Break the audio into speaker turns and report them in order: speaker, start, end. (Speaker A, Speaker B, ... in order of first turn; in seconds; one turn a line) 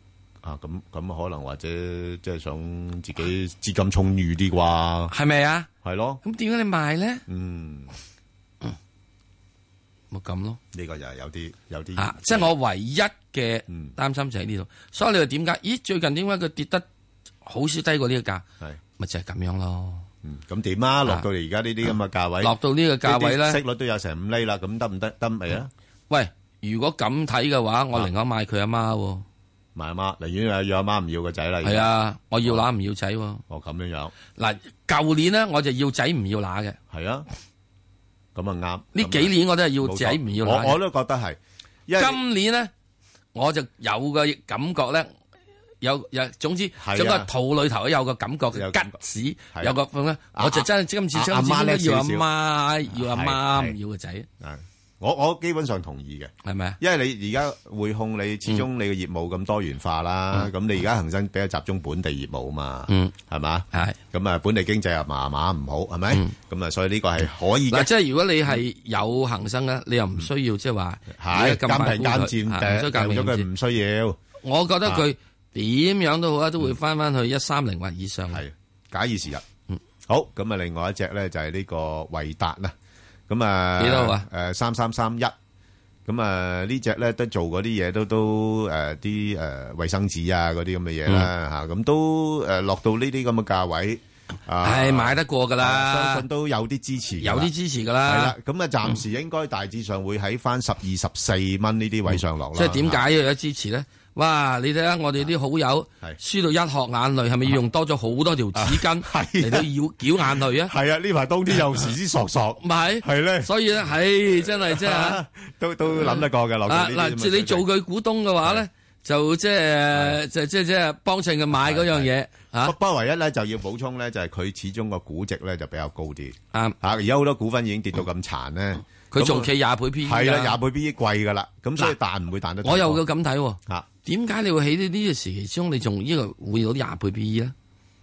Speaker A: 0.4-5.1
Speaker B: 5.1-5.7
Speaker A: 5.8-6.2
Speaker B: 6.2-7.2
Speaker A: 7.3-7.9
Speaker B: 10.1-10.6
Speaker A: 10.7-12.5
Speaker B: 11.9-16.9
Speaker B: 17.4-18.4
Speaker B: 19.0-20.1
Speaker A: 20.2-25.7
Speaker B: 22.4-23.6
Speaker B: 26.1-29.2
Speaker A: 29.8-31.9
Speaker B: 31.6-33.4
Speaker A: 33.5-34.1
Speaker B: 34.4-36.8
Speaker A: 36.9-37.2
Speaker A: 38.3-42.2
Speaker B: 38.9-40.8
Speaker B: 42.0-42.7
Speaker B: 43.3-45.1
Speaker B: 45.8-54.3
Speaker A: 46.8-47.3
Speaker A: 48.5-48.9
Speaker A: 50.3-52.2
Speaker A: 53.0-53.8
Speaker A: 54.4-67.9
Speaker B: 56.4-56.8
Speaker B: 62.9-63.1
Speaker B: 63.7-64.0
Speaker B: 67.7-73.5
Speaker A: 71.1-74.2
Speaker B: 74.4-78.4
Speaker A: 78.3-79.4
Speaker A: 80.1-82.7
Speaker A: 83.3-85.3
Speaker B: 83.8-84.3
Speaker A: 86.0-97.5
Speaker B: 94.6-96.2
Speaker B: 97.2-98.3
Speaker A: 98.0-103.0
Speaker B: 102.1-110.7
Speaker A: 108.5-109.7
Speaker A: 110.7-113.5
Speaker B: 112.6-115.2
Speaker A: 114.4-117.6
Speaker B: 115.9-122.7
Speaker A: 119.9-120.2
Speaker A: 121.5-122.1
Speaker A: 122.6-129.5
Speaker B: 129.1-130.6
Speaker A: 130.0-133.0
Speaker B: 132.6-137.5